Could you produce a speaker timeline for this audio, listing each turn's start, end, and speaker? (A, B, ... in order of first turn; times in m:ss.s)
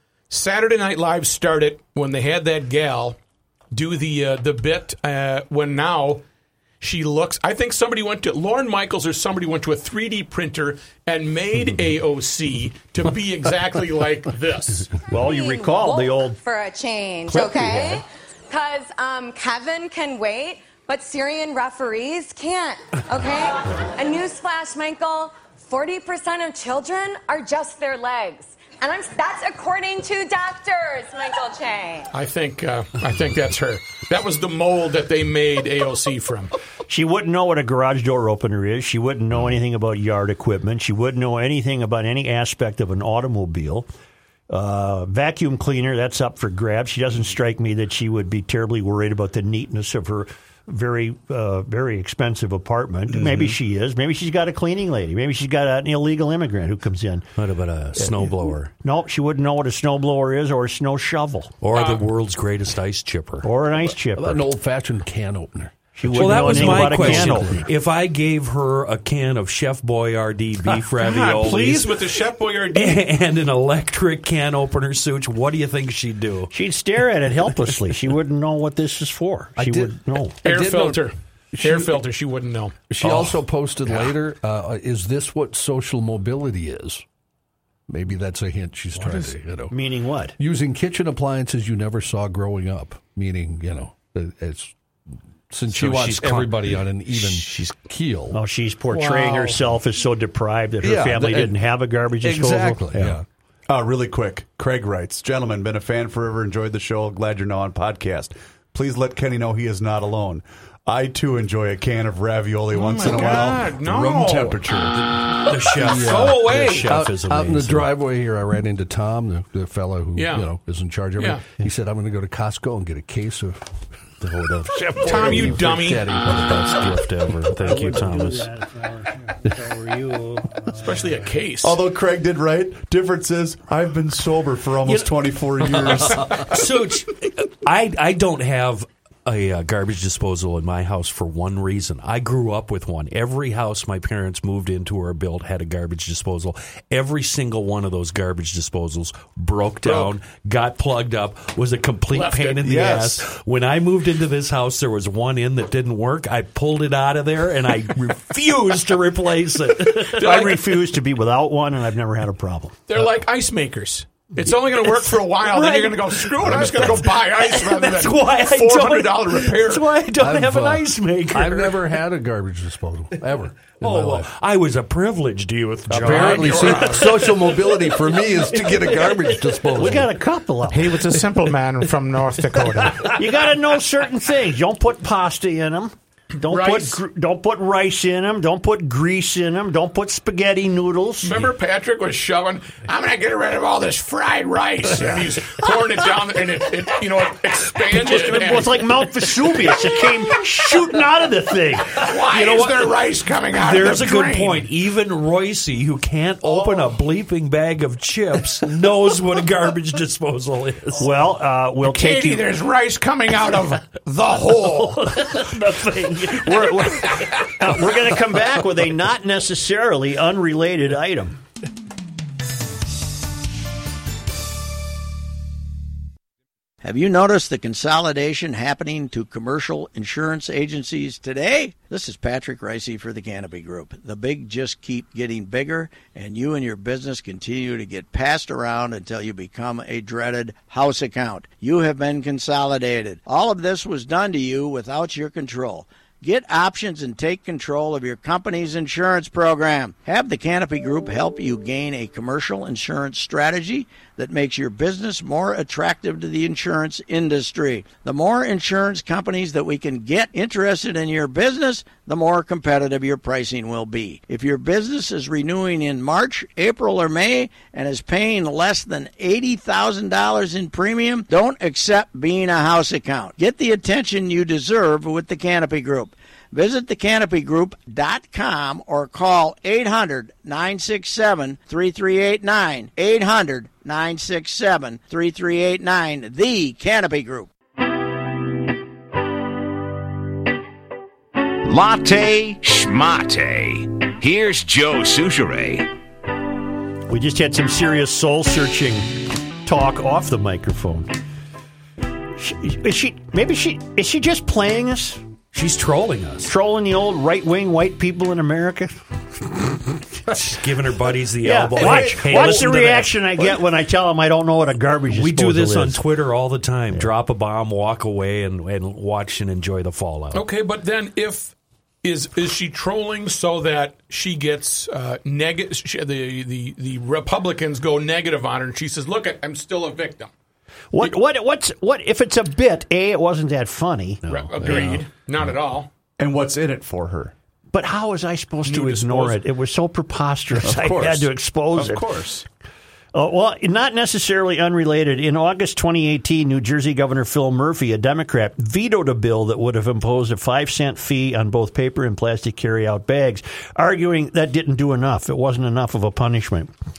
0:00.3-0:03.2 A
0:03.7-0:06.2 A
0:06.8-0:15.0 A
0:15.1-0:16.4 B
0:15.1-0:32.1 C
0:17.3-0:18.0 B
0:32.1-0:36.5 A
0:36.9-0:43.9 B
0:44.5-0:57.3 B
0:53.1-0:53.6 D
0:57.4-0:58.7 E
0:58.8-1:01.5 B
1:01.6-1:03.5 E
1:01.7-1:02.0 A
1:03.4-1:04.4 B
1:04.2-1:07.7 F
1:06.0-1:07.7 B
1:06.1-1:12.0 E
1:11.0-1:13.0 A
1:12.7-1:16.5 E
1:16.5-1:20.4 B
1:19.6-1:22.0 F
1:20.4-1:22.8 A
1:22.9-1:27.0 F
1:23.0-1:23.3 E
1:27.9-1:29.7 F
1:29.7-1:30.4 B
1:30.4-1:34.7 F
1:35.5-1:38.4 F
1:35.7-1:37.7 E
1:38.3-1:43.2 B
1:38.9-1:39.6 A
1:40.8-1:41.5 F
1:42.2-1:43.2 F
1:43.7-1:55.4 D
1:52.7-1:54.6 A
1:55.4-1:57.9 E
1:55.8-2:03.6 F
1:55.8-1:56.9 A
2:00.2-2:00.5 A
2:01.2-2:01.4 A
2:04.2-2:05.6 E
2:04.9-2:06.8 F
2:05.0-2:06.1 A
2:06.2-2:08.5 E
2:07.6-2:11.0 B
2:10.8-2:11.8 A
2:11.6-2:16.6 D
2:16.2-2:40.2 E
2:29.8-2:30.1 A
2:32.1-2:32.7 A
2:32.6-2:33.2 D
2:39.8-2:42.8 B
2:40.2-2:40.6 A
2:42.9-2:49.9 A
2:45.4-2:47.0 B
2:46.6-2:47.0 D
2:47.4-2:51.8 E
2:49.6-2:50.3 B
2:50.2-2:54.3 F
2:53.8-2:57.0 E
2:55.9-3:00.1 F
2:55.9-2:57.4 A
2:58.3-3:01.0 B
3:00.7-3:03.2 A
3:03.0-3:11.5 B
3:06.4-3:07.0 A
3:11.2-3:18.9 A
3:17.9-3:22.4 B
3:21.9-3:24.6 A
3:23.5-3:31.1 E
3:26.5-3:26.8 D
3:31.0-3:32.5 B
3:31.8-3:35.4 A
3:34.8-3:41.4 B
3:46.8-4:47.5 G
4:51.6-4:55.9 H
4:57.1-5:01.1 B
5:02.4-5:05.2 B
5:05.5-5:06.5 E
5:06.4-5:09.0 B
5:10.3-5:13.2 E
5:11.4-5:16.0 B
5:11.8-5:12.5 D
5:15.1-5:20.4 E
5:20.3-5:30.3 A
5:30.9-5:34.2 B
5:34.2-5:35.0 E
5:34.3-5:35.9 A
5:36.2-5:37.3 D
5:37.7-5:42.2 B
5:38.6-5:39.4 A
5:40.6-5:42.4 D
5:43.1-5:56.7 B